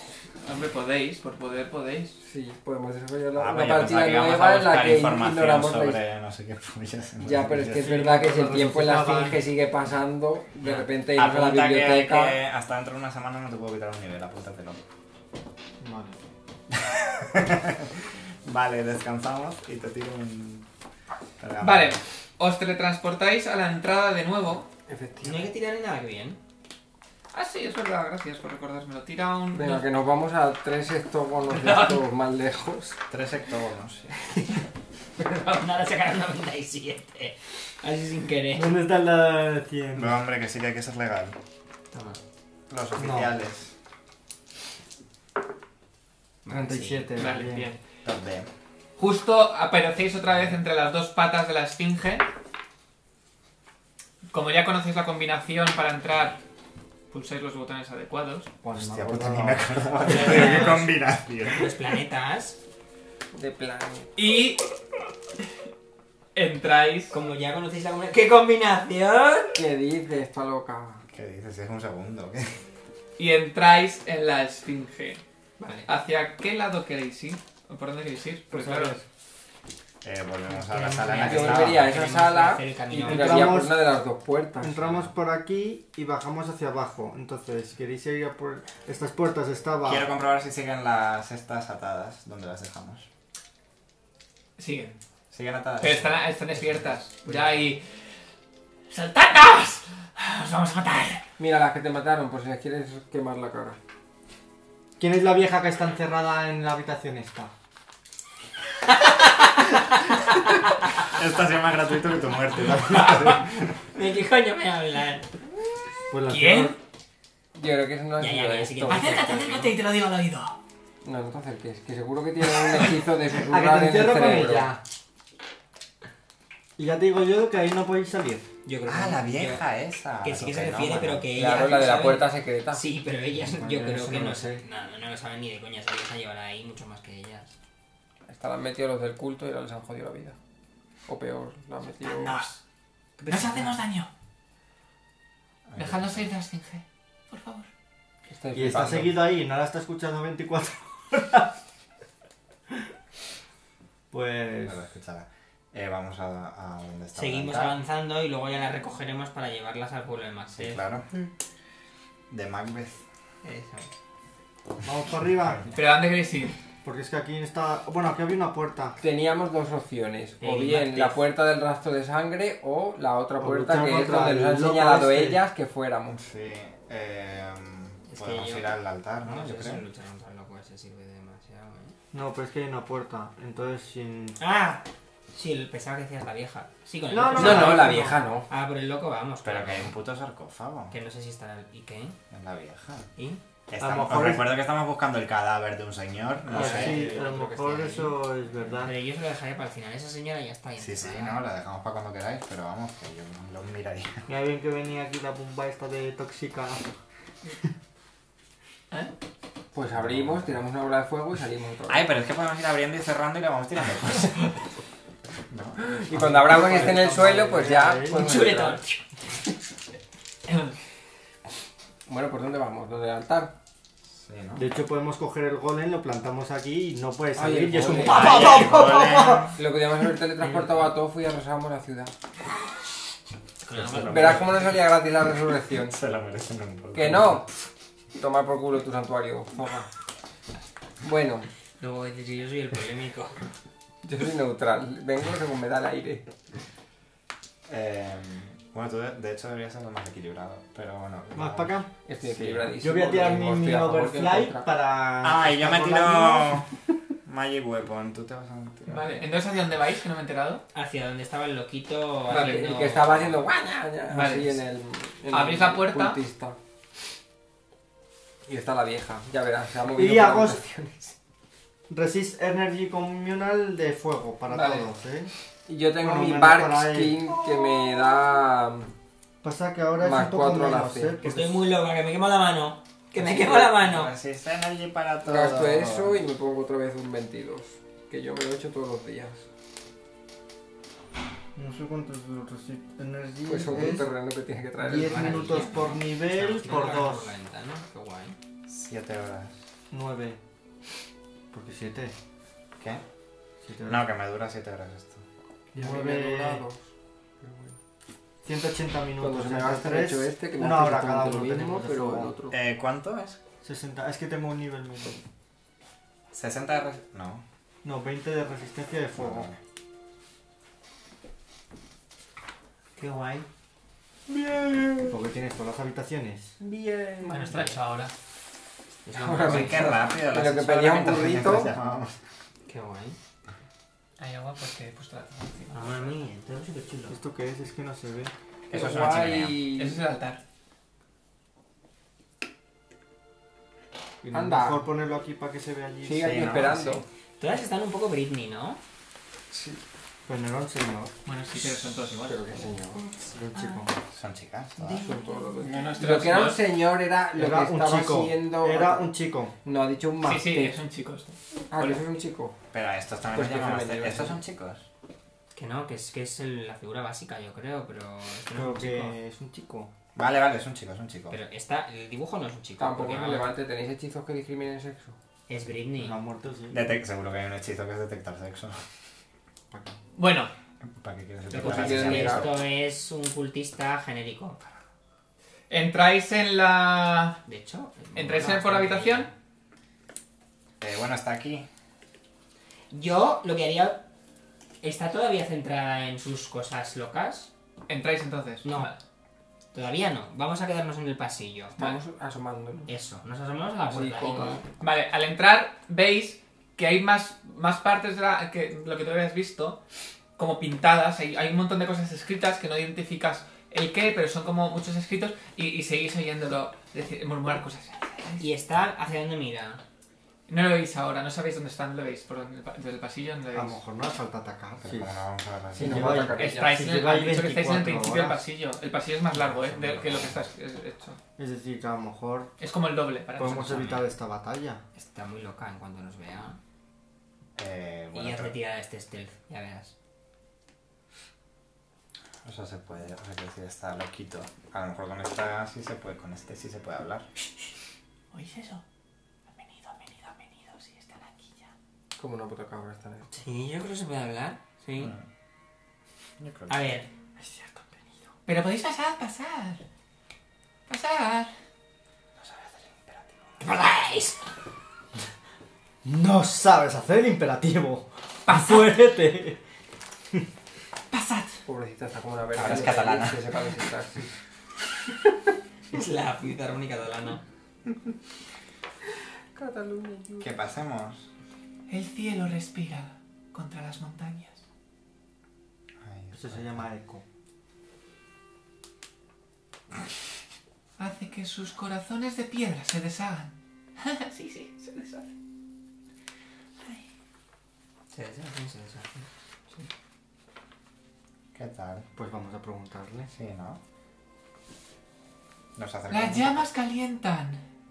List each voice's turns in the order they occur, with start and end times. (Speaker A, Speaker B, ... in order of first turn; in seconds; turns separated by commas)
Speaker A: 0.4-2.2, Speaker B: 2.2-6.0, Speaker C: 3.4-8.0, Speaker B: 7.2-12.4, Speaker D: 7.4-9.4, Speaker C: 10.6-14.8, Speaker D: 15.8-16.2, Speaker C: 16.7-20.7, Speaker C: 21.4-22.0, Speaker A: 21.6-24.7, Speaker B: 24.9-25.5, Speaker E: 25.2-26.4, Speaker A: 27.3-29.9, Speaker B: 29.5-33.0, Speaker A: 31.6-32.0, Speaker C: 33.1-34.1, Speaker E: 34.3-34.6, Speaker E: 35.2-38.7, Speaker D: 38.5-40.2, Speaker C: 40.0-41.4, Speaker E: 41.9-42.2, Speaker C: 42.7-43.7, Speaker D: 43.0-43.3, Speaker E: 46.5-47.2, Speaker D: 46.5-47.7, Speaker A: 47.2-47.8, Speaker C: 48.0-48.5, Speaker A: 49.0-52.3, Speaker A: 54.3-56.4, Speaker A: 57.1-58.5, Speaker D: 58.6-60.9, Speaker C: 58.7-61.7, Speaker E: 60.1-60.8, Speaker E: 61.4-62.6, Speaker B: 63.3-64.1, Speaker A: 64.2-64.7, Speaker A: 66.3-67.2, Speaker E: 67.1-69.6, Speaker B: 69.5-71.0, Speaker C: 71.1-72.6, Speaker A: 73.2-75.2, Speaker E: 75.6-75.9, Speaker A: 75.9-79.0, Speaker D: 78.5-79.0, Speaker C: 80.0-82.0, Speaker E: 80.6-83.5, Speaker B: 81.2-84.9, Speaker D: 83.0-83.8, Speaker D: 84.6-90.1, Speaker C: 84.9-85.1, Speaker C: 89.8-93.1, Speaker A: 94.6-95.0, Speaker C: 95.3-96.8, Speaker A: 95.8-98.0, Speaker A: 98.9-101.2, Speaker B: 101.4-103.8, Speaker D: 105.0-107.5, Speaker E: 109.1-109.8, Speaker C: 111.0-113.7, Speaker D: 112.9-113.4, Speaker E: 113.9-115.3, Speaker D: 116.1-116.8, Speaker A: 116.3-116.8, Speaker B: 117.5-119.7, Speaker E: 118.2-119.6, Speaker A: 118.9-120.6, Speaker B: 121.0-124.7, Speaker D: 123.3-124.8, Speaker D: 126.8-128.5, Speaker E: 128.7-129.7, Speaker C: 128.9-131.3, Speaker E: 130.2-137.5, Speaker B: 131.3-132.8, Speaker D: 133.5-134.7, Speaker B: 138.3-140.4, Speaker B: 141.1-142.4, Speaker A: 142.0-142.6, Speaker E: 143.2-143.8, Speaker A: 143.3-144.1, Speaker C: 145.7-146.3, Speaker A: 145.8-147.7, Speaker B: 148.3-149.1, Speaker D: 148.5-151.5, Speaker C: 148.7-149.2, Speaker D: 154.1-154.8, Speaker C: 154.7-157.8, Speaker E: 157.2-160.8, Speaker C: 160.6-161.1, Speaker C: 162.3-163.1, Speaker E: 163.4-163.9, Speaker D: 164.8-165.8, Speaker A: 165.8-166.5, Speaker D: 166.8-169.0, Speaker B: 169.0-176.2, Speaker E: 170.4-171.2, Speaker D: 173.4-175.4, Speaker C: 176.1-179.8, Speaker E: 178.1-182.0, Speaker D: 182.1-184.4, Speaker E: 184.4-189.9, Speaker D: 187.1-188.2, Speaker B: 187.3-188.5, Speaker C: 189.4-190.9, Speaker E: 190.9-192.2, Speaker C: 192.3-193.1, Speaker C: 193.7-197.1, Speaker D: 193.8-194.5, Speaker B: 196.5-198.1, Speaker D: 196.5-198.9, Speaker E: 196.6-198.1, Speaker E: 198.8-201.4, Speaker C: 200.8-204.3, Speaker D: 204.3-206.9, Speaker B: 209.7-212.1, Speaker C: 209.9-210.7, Speaker C: 211.9-214.5, Speaker C: 215.5-215.8, Speaker B: 215.8-218.8, Speaker D: 216.1-218.3, Speaker A: 218.1-219.0, Speaker A: 220.5-220.8, Speaker B: 222.1-223.6, Speaker C: 224.1-224.7, Speaker D: 224.6-229.6, Speaker B: 227.3-229.0, Speaker C: 228.1-229.6, Speaker B: 229.5-232.1, Speaker E: 233.7-234.7, Speaker C: 233.7-234.7, Speaker B: 234.1-236.0, Speaker C: 235.7-237.4, Speaker B: 236.9-237.5, Speaker B: 238.2-239.9, Speaker B: 241.0-241.5, Speaker E: 241.8-243.4, Speaker B: 244.0-246.3, Speaker C: 247.7-252.7, Speaker D: 251.3-251.9, Speaker B: 252.1-254.7, Speaker D: 252.8-256.6, Speaker C: 255.2-259.1, Speaker A: 258.9-260.6, Speaker E: 260.7-263.4, Speaker B: 262.3-266.6, Speaker A: 262.3-262.6, Speaker A: 264.1-264.6, Speaker A: 265.3-266.2, Speaker B: 268.4-271.1, Speaker D: 269.9-270.6, Speaker D: 271.9-275.3, Speaker A: 274.5-274.9, Speaker B: 275.7-278.9, Speaker D: 276.0-277.2, Speaker D: 279.4-281.5, Speaker B: 280.0-281.2, Speaker E: 281.2-284.1, Speaker C: 283.2-286.2, Speaker B: 285.2-289.5, Speaker D: 291.6-294.1, Speaker B: 293.5-295.7, Speaker D: 294.8-297.3, Speaker E: 294.8-298.4, Speaker C: 298.7-299.6, Speaker D: 299.9-300.4, Speaker D: 301.5-302.2, Speaker D: 303.6-304.1, Speaker C: 303.9-305.3, Speaker D: 305.7-306.6, Speaker B: 305.8-307.8, Speaker D: 308.4-312.4, Speaker B: 309.2-312.6, Speaker C: 312.5-313.4, Speaker D: 313.6-315.2, Speaker C: 316.3-317.4, Speaker D: 317.8-319.5, Speaker C: 319.2-319.6, Speaker E: 323.0-323.5, Speaker E: 324.3-324.9, Speaker D: 325.0-326.6, Speaker E: 326.6-327.8, Speaker A: 327.2-328.1, Speaker E: 329.1-329.9, Speaker B: 329.1-331.7, Speaker C: 329.4-332.1, Speaker E: 332.7-333.2, Speaker A: 334.2-335.8, Speaker E: 335.7-337.2, Speaker D: 337.1-338.3, Speaker C: 338.7-339.6, Speaker B: 338.7-340.1, Speaker A: 339.8-340.4, Speaker D: 344.2-346.9, Speaker B: 344.3-344.9, Speaker B: 346.0-347.0, Speaker C: 346.2-346.8, Speaker E: 347.4-348.8, Speaker D: 350.3-351.1, Speaker A: 351.3-352.7, Speaker B: 352.3-353.1, Speaker D: 353.2-354.0, Speaker C: 354.1-355.1, Speaker E: 354.8-355.7, Speaker B: 354.9-360.8, Speaker A: 355.6-356.6, Speaker D: 357.3-359.5, Speaker A: 360.2-362.1, Speaker B: 361.7-362.6, Speaker C: 362.7-364.9, Speaker B: 363.3-364.4, Speaker E: 365.5-369.2, Speaker D: 368.5-369.9, Speaker C: 370.1-371.4, Speaker E: 371.3-373.6, Speaker B: 372.8-375.2, Speaker E: 375.5-376.2, Speaker D: 376.0-376.9, Speaker C: 376.7-378.8, Speaker D: 379.7-380.0, Speaker A: 380.1-380.5, Speaker C: 380.8-382.6, Speaker E: 381.5-384.6, Speaker B: 381.5-382.5, Speaker A: 385.7-387.4, Speaker E: 387.4-389.3, Speaker A: 388.1-389.3, Speaker C: 390.8-391.7, Speaker E: 392.9-394.0, Speaker E: 394.8-397.5, Speaker A: 397.9-399.0, Speaker E: 398.6-398.9, Speaker E: 399.7-401.8, Speaker B: 401.8-402.9, Speaker E: 402.9-404.6, Speaker B: 403.9-404.6, Speaker A: 404.8-409.8, Speaker A: 410.4-418.4, Speaker E: 418.4-419.8, Speaker A: 420.5-423.8, Speaker D: 423.5-425.2, Speaker C: 424.8-426.3, Speaker B: 425.8-426.8, Speaker D: 425.8-428.4, Speaker A: 426.3-431.2, Speaker C: 429.4-430.4, Speaker D: 431.4-432.5, Speaker A: 432.6-434.0, Speaker D: 433.4-434.8, Speaker E: 434.9-436.6, Speaker C: 437.6-438.6, Speaker E: 438.1-439.9, Speaker C: 442.4-447.3, Speaker A: 448.3-448.8, Speaker A: 449.5-451.7, Speaker B: 452.2-453.3, Speaker E: 453.3-455.2, Speaker C: 455.0-455.3, Speaker C: 456.4-456.9, Speaker E: 456.7-457.1, Speaker B: 457.4-458.0, Speaker A: 458.5-459.8, Speaker A: 460.9-461.5, Speaker C: 462.4-463.4, Speaker E: 463.6-464.4, Speaker D: 466.0-469.6, Speaker A: 468.5-469.0, Speaker A: 471.1-471.6, Speaker B: 471.6-474.3, Speaker C: 472.6-473.5, Speaker E: 475.9-477.4, Speaker B: 479.5-480.5, Speaker C: 480.4-481.3, Speaker A: 481.9-484.6, Speaker C: 486.0-486.9, Speaker D: 486.4-487.2, Speaker A: 491.0-495.3, Speaker E: 498.1-499.9, Speaker C: 501.5-502.1, Speaker D: 502.1-503.3, Speaker C: 503.3-503.8, Speaker C: 505.8-506.7, Speaker A: 506.1-507.6